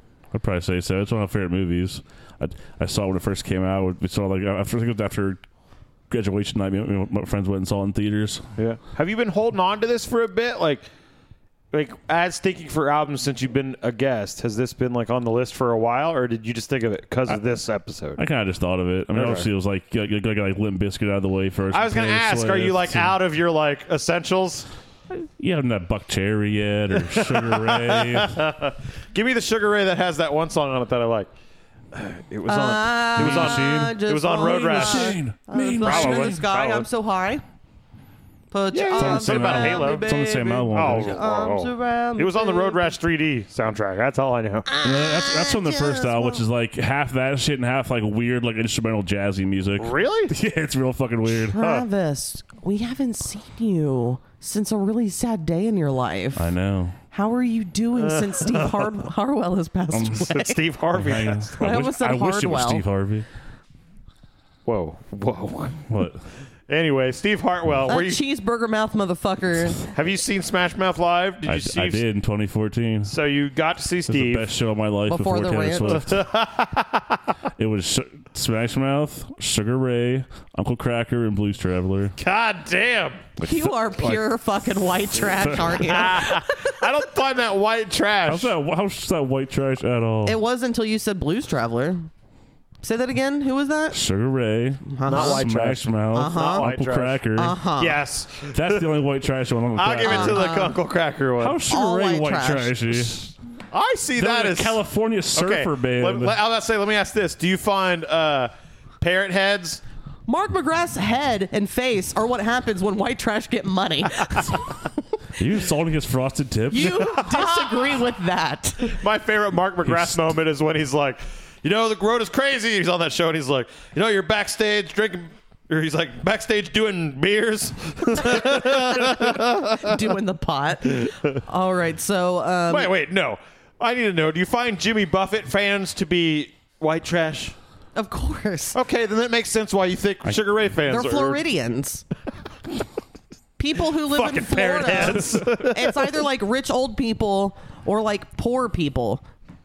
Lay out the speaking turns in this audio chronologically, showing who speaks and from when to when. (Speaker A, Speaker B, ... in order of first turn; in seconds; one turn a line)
Speaker A: 0.3-5.4
Speaker A: 6.1-8.4
Speaker B: 8.6-10.9
Speaker B: 11.7-18.2
Speaker A: 18.2-23.2
Speaker B: 19.1-19.5
Speaker B: 21.7-24.7
Speaker A: 25.1-28.4
Speaker B: 27.0-31.3
Speaker B: 31.9-35.2
Speaker C: 32.5-37.4
Speaker A: 33.2-36.4
Speaker B: 35.8-36.9
Speaker C: 38.5-42.9
Speaker B: 38.7-40.2
Speaker A: 38.9-41.2
Speaker B: 40.7-44.7
Speaker C: 44.7-46.5
Speaker A: 44.8-51.6
Speaker B: 49.8-50.3
Speaker C: 51.3-56.5
Speaker A: 56.4-57.0
Speaker C: 57.1-60.6
Speaker B: 58.0-58.9
Speaker A: 59.9-60.3
Speaker B: 60.3-61.9
Speaker A: 60.9-63.3
Speaker C: 61.6-62.8
Speaker B: 64.7-65.9
Speaker A: 65.9-66.2
Speaker B: 66.7-68.2
Speaker C: 67.9-69.9
Speaker B: 69.9-72.0
Speaker A: 71.5-73.1
Speaker B: 73.1-74.5
Speaker A: 74.1-76.2
Speaker C: 75.1-76.0
Speaker B: 75.9-77.2
Speaker A: 77.6-82.2
Speaker B: 82.2-83.2
Speaker A: 83.4-84.3
Speaker C: 83.4-86.8
Speaker A: 85.0-85.8
Speaker B: 85.9-88.5
Speaker A: 88.3-90.4
Speaker C: 90.2-92.1
Speaker C: 92.8-94.0
Speaker A: 93.9-97.5
Speaker C: 94.9-95.5
Speaker B: 95.1-97.2
Speaker C: 96.1-96.7
Speaker C: 97.4-98.0
Speaker B: 97.8-98.9
Speaker A: 98.5-100.4
Speaker B: 99.8-101.6
Speaker C: 100.0-100.8
Speaker A: 101.4-103.2
Speaker C: 101.7-102.8
Speaker B: 103.7-104.8
Speaker A: 104.2-106.4
Speaker B: 105.3-109.8
Speaker C: 110.3-114.6
Speaker A: 115.4-117.0
Speaker C: 116.7-119.0
Speaker B: 116.9-118.0
Speaker B: 118.8-129.9
Speaker A: 119.8-120.3
Speaker C: 128.4-132.9
Speaker B: 132.7-137.6
Speaker C: 137.9-138.8
Speaker B: 138.8-141.4
Speaker C: 140.9-142.1
Speaker C: 143.6-149.2
Speaker B: 144.1-146.1